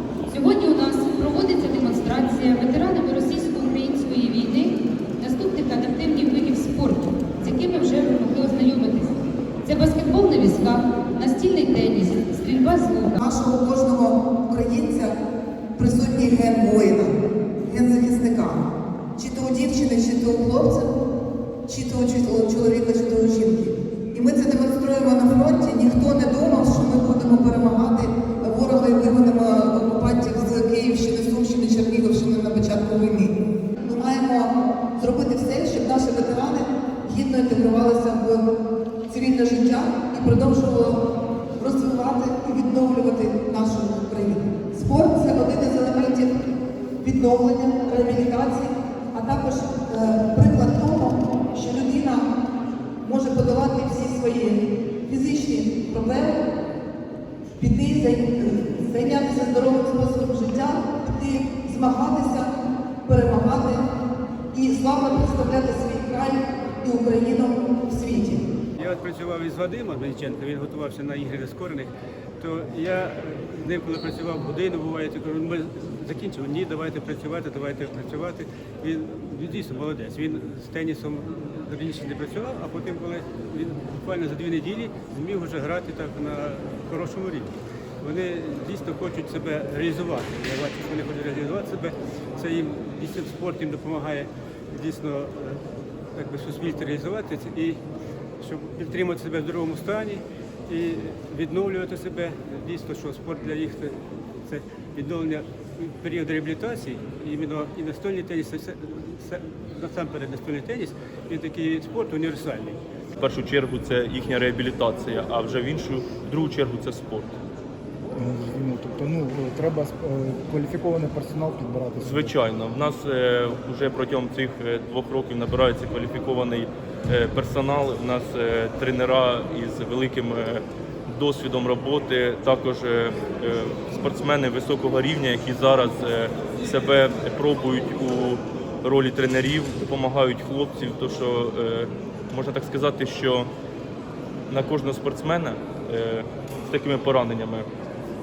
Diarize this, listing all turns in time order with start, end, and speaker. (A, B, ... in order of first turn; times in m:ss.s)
0:00.3-0:13.2 A
0:13.2-0:15.1 B
0:15.8-0:20.9 B
0:21.7-0:38.5 B
0:39.1-0:41.0 B
0:41.6-0:46.4 B
0:47.0-0:52.2 B
0:53.0-0:56.4 B
0:57.6-1:02.5 B
1:03.0-1:03.8 B
1:04.5-1:08.5 B
1:08.8-1:35.6 C
1:36.1-1:37.8 C
1:38.4-1:52.8 C
1:53.2-1:57.3 D
1:58.2-2:02.3 E
2:02.0-2:23.5 D
2:24.5-2:27.7 D